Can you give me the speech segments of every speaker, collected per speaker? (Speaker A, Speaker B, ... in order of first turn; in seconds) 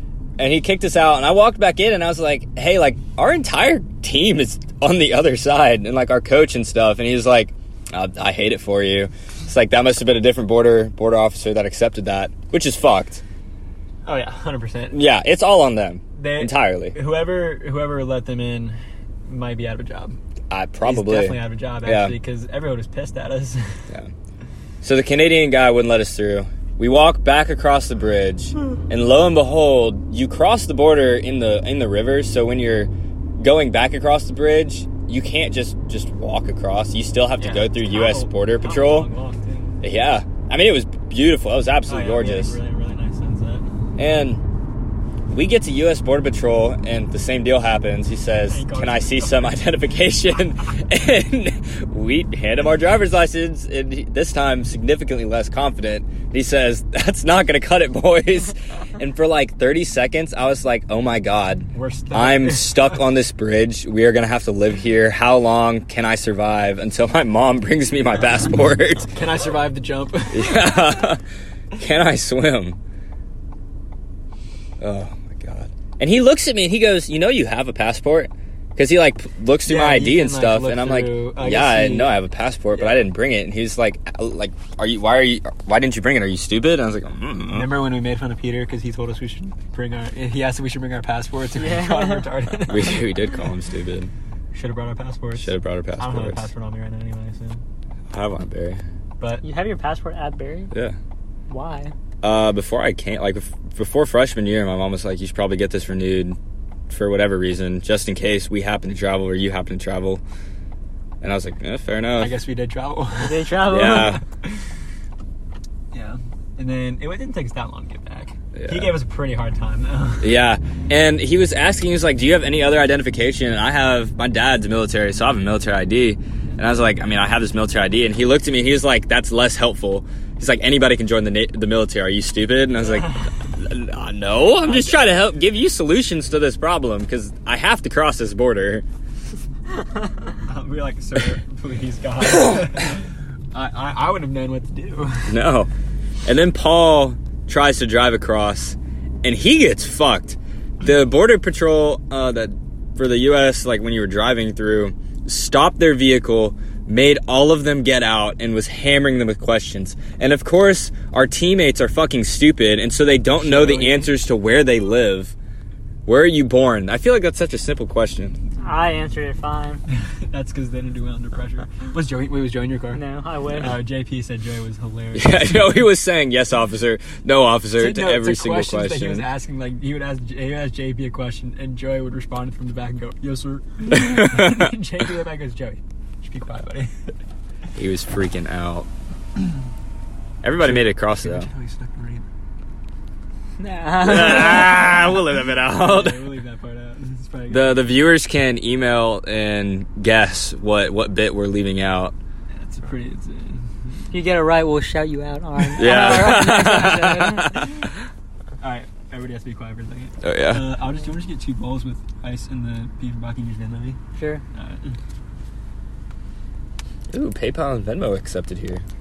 Speaker A: 0.4-13.2, 14.9-17.0, 20.5-22.1, 24.8-39.1, 39.8-42.6, 44.0-44.4, 45.3-69.1, 70.3-71.2, 71.8-72.8, 74.8-87.7, 92.7-94.1, 95.4-96.5, 98.1-98.8, 100.7-101.0, 102.2-106.4, 106.9-110.2, 111.2-112.4, 113.7-114.2, 118.6-118.9, 120.2-138.8, 145.3-145.7, 146.2-165.3, 166.1-168.4, 175.1-179.3, 184.1-184.6, 187.8-188.9, 190.4-191.5, 194.0-196.2, 197.5-202.2, 205.8-207.7, 210.2-210.7, 217.1-218.8
Speaker B: 14.1-15.0, 16.1-20.2, 20.8-23.8, 37.4-39.8, 41.9-43.7, 48.5-49.6, 61.7-63.0, 69.1-70.9, 79.7-82.2, 82.7-83.1, 87.5-93.1, 94.5-97.6, 99.2-99.4, 112.2-114.6, 115.9-120.3, 132.8-133.3, 134.6-135.2, 140.4-145.3, 163.3-164.1, 169.9-175.7, 177.8-186.9, 190.6-192.3, 195.7-197.9, 202.5-203.7, 208.6-214.0, 214.6-214.9
Speaker C: 91.6-92.3, 99.4-100.7, 101.5-101.9, 113.2-114.2, 168.6-169.8, 172.9-173.8, 193.6-194.9, 204.1-207.7, 214.2-214.4